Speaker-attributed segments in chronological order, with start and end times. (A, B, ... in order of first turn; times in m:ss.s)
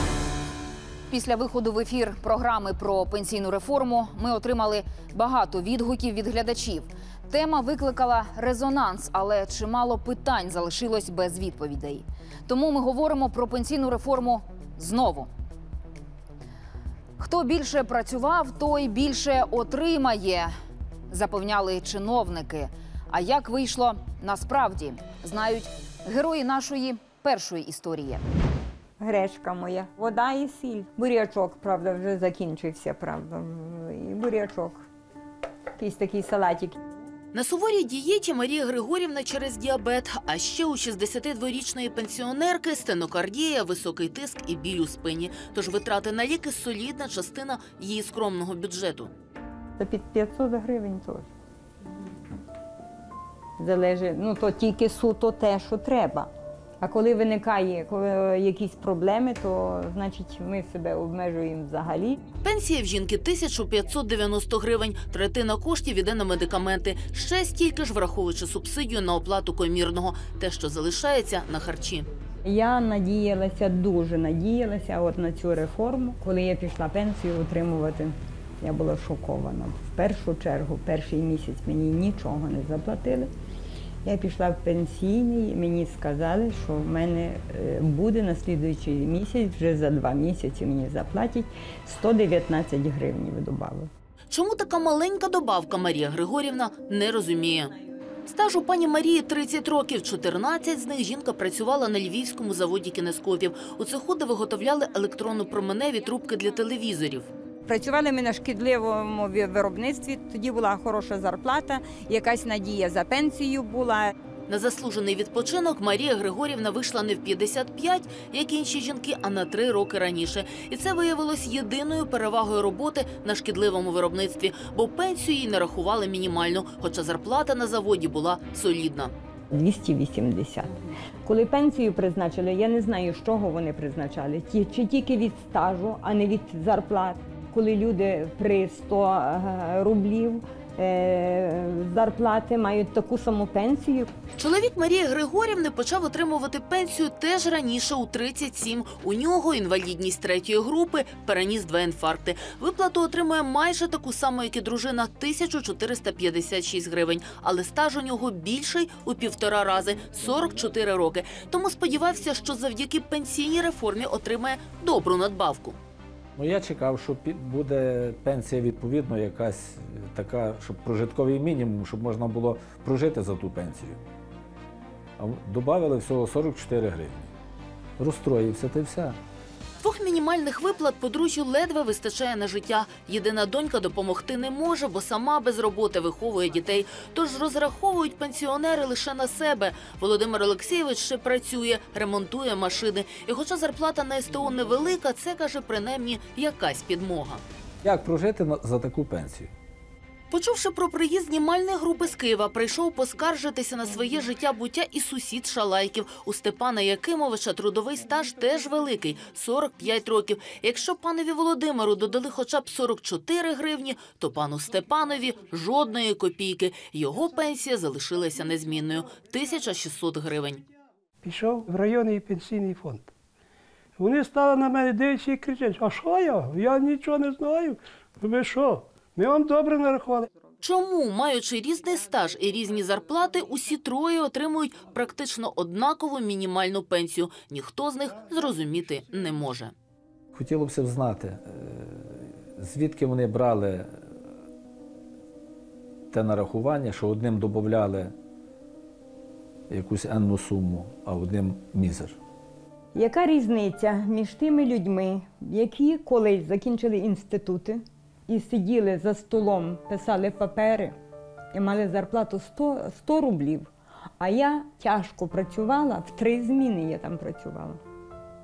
0:01.1-0:15.3 A
0:17.2-0:20.5 A
0:21.1-0:28.2 A
0:29.0-0:34.8 B
0:35.8-0:36.8 B
0:37.3-0:49.1 C
0:49.8-0:51.3 B
0:53.6-0:56.3 B
0:56.8-1:02.2 B
1:02.4-1:12.1 C
1:12.4-1:23.3 B
1:24.0-1:33.9 B
1:34.3-1:37.7 C
1:38.3-1:47.3 C
1:47.7-1:54.1 B
1:54.5-2:09.1 C
2:09.5-2:10.7 B
2:11.2-2:24.1 B
2:24.3-2:45.8 C
2:46.3-2:54.0 D
2:55.2-2:57.3 D
2:58.0-2:59.2 D
2:59.8-3:17.4 C
3:17.8-3:19.5 D
3:20.3-3:40.6 C
3:41.2-3:43.1 E
3:44.0-3:50.3 E
3:50.6-3:59.7 C
4:00.3-4:04.0 D
4:06.1-4:08.1 D
4:09.7-4:12.2 D
4:12.9-4:20.9 B
4:21.5-4:27.8 B